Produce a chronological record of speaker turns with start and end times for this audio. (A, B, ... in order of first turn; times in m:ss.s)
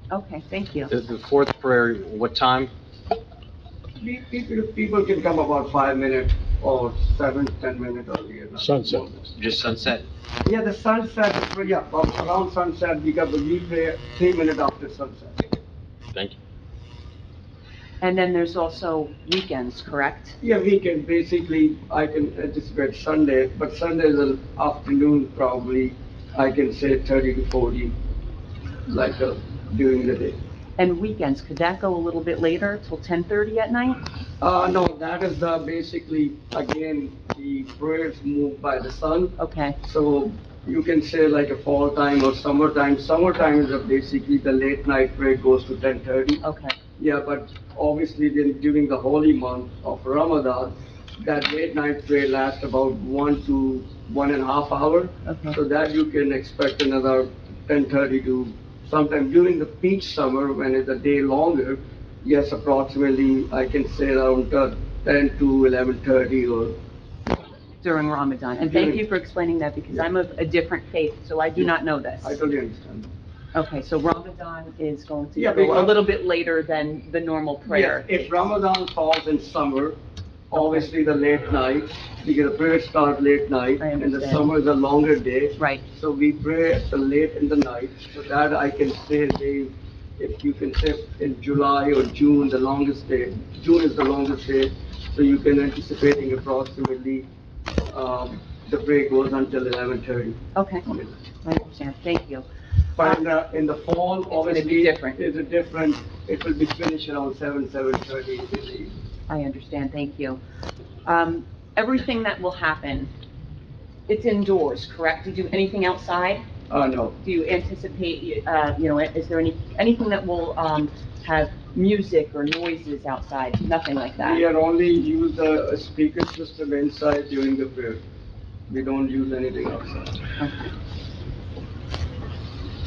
0:00.1-0:00.9 A
0:00.9-0:02.7 B
0:04.0-0:09.4 C
0:09.4-0:10.0 B
0:10.4-0:15.5 C
0:18.0-0:20.4 A
0:20.4-0:28.0 C
0:28.9-0:30.4 C
0:30.8-0:34.0 A
0:34.4-0:46.4 C
0:39.4-0:39.8 A
0:46.4-0:46.7 A
0:47.0-1:06.8 C
0:55.3-0:55.6 A
1:07.8-1:12.4 A
1:08.6-1:09.0 C
1:12.2-1:13.1 C
1:13.6-1:18.3 A
1:15.4-1:16.0 C
1:17.7-1:20.0 C
1:20.5-1:37.3 C
1:20.6-1:20.8 A
1:23.8-1:24.5 A
1:25.6-1:25.8 A
1:37.9-1:41.1 C
1:40.6-1:40.9 A
1:41.4-1:42.5 A
1:43.0-1:48.9 C
1:44.3-1:45.2 A
1:49.3-1:50.4 A
1:51.0-1:53.1 A
1:54.1-1:56.4 A
1:56.7-1:57.2 C
1:57.2-2:04.4 A
2:04.2-2:08.0 C
2:08.7-2:10.2 C